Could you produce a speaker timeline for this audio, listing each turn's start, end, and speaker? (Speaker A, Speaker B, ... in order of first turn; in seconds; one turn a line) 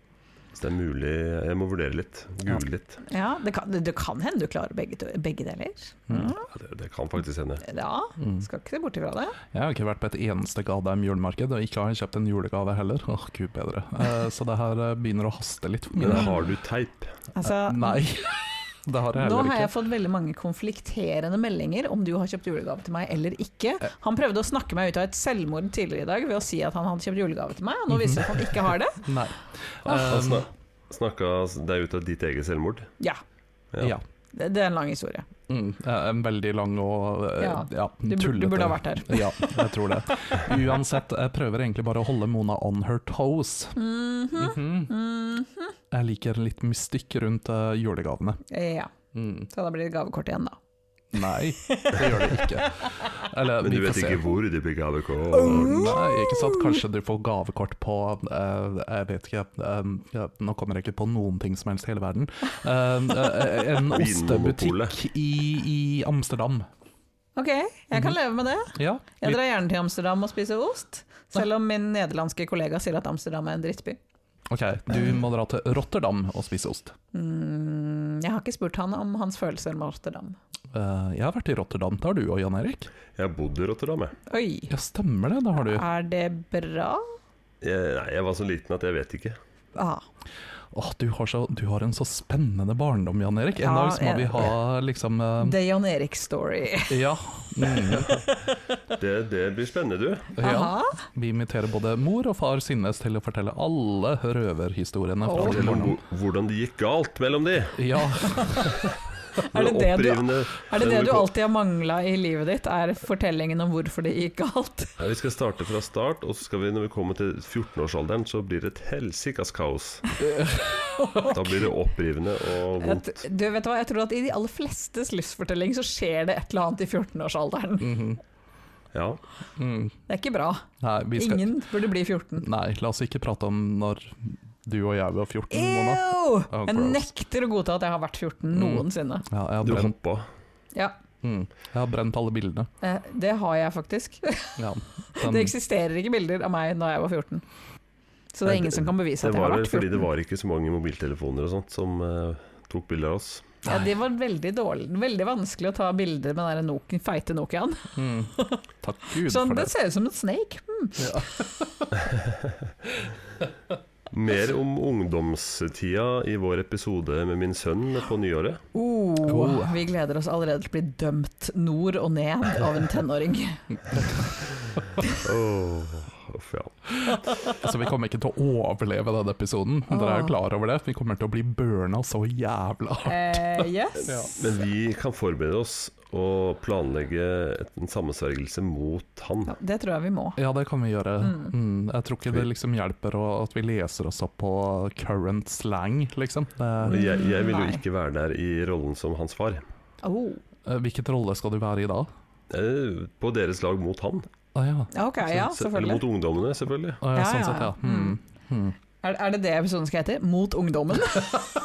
Speaker A: 0.5-3.0
Speaker B: 3.1-6.5
Speaker A: 6.4-7.7
Speaker B: 7.6-9.4
Speaker C: 8.2-8.5
Speaker C: 9.5-16.4
Speaker A: 16.0-17.1
Speaker B: 17.4-18.2
Speaker C: 17.4-19.7
Speaker B: 19.1-29.1
Speaker C: 27.9-30.5
Speaker A: 29.9-32.9
Speaker B: 34.3-35.3
Speaker C: 35.5-43.8
Speaker B: 37.4-39.6
Speaker B: 43.8-45.7
Speaker C: 44.4-44.9
Speaker C: 45.9-48.4
Speaker B: 48.5-48.9
Speaker C: 49.1-49.5
Speaker B: 49.5-50.6
Speaker C: 51.1-54.4
Speaker B: 51.6-52.7
Speaker A: 53.6-56.0
Speaker B: 55.3-56.8
Speaker C: 55.4-66.7
Speaker A: 63.9-65.0
Speaker B: 67.4-74.0
Speaker C: 68.8-69.4
Speaker C: 74.5-77.0
Speaker B: 74.9-75.2
Speaker B: 77.1-80.4
Speaker C: 80.7-82.9
Speaker A: 83.2-84.2
Speaker B: 84.3-84.7
Speaker C: 84.7-85.8
Speaker B: 85.6-87.0
Speaker A: 87.6-89.4
Speaker B: 89.8-90.0
Speaker C: 90.7-95.6
Speaker B: 93.6-94.5
Speaker B: 95.4-97.0
Speaker C: 96.9-98.1
Speaker B: 97.8-98.6
Speaker A: 99.0-100.3
Speaker C: 100.4-106.0
Speaker B: 100.4-101.0
Speaker B: 105.2-105.8
Speaker A: 105.4-107.8
Speaker C: 107.8-108.7
Speaker B: 108.3-108.6
Speaker A: 108.8-111.3
Speaker B: 109.5-114.9
Speaker A: 115.0-120.1
Speaker C: 120.2-121.3
Speaker B: 120.9-121.3
Speaker A: 121.3-123.2
Speaker B: 122.8-128.1
Speaker C: 127.8-128.2
Speaker A: 128.9-129.2
Speaker C: 129.6-130.0
Speaker B: 130.1-132.5
Speaker C: 130.8-131.5
Speaker C: 132.4-137.1
Speaker B: 135.5-139.3
Speaker C: 138.5-139.9
Speaker A: 139.6-140.3
Speaker C: 141.2-142.7
Speaker B: 142.8-144.6
Speaker C: 144.6-145.5
Speaker B: 145.1-147.4
Speaker B: 148.3-150.1
Speaker A: 148.4-153.6
Speaker B: 153.7-158.6
Speaker C: 158.0-159.7
Speaker B: 159.2-161.3
Speaker C: 161.0-161.9
Speaker A: 164.1-168.7
Speaker B: 168.7-174.0
Speaker C: 169.2-169.8
Speaker A: 175.2-176.8
Speaker C: 177.6-184.3
Speaker B: 179.9-180.3
Speaker B: 183.1-184.4
Speaker A: 184.3-189.5
Speaker B: 189.5-190.4
Speaker C: 190.4-197.0
Speaker B: 191.2-191.5
Speaker A: 196.8-199.6
Speaker B: 196.9-197.8
Speaker B: 200.0-200.4
Speaker C: 200.7-202.1
Speaker A: 202.5-204.3
Speaker C: 204.6-204.9
Speaker B: 204.9-206.0
Speaker A: 205.3-207.0
Speaker C: 207.0-208.8
Speaker B: 207.1-208.2
Speaker B: 209.0-211.5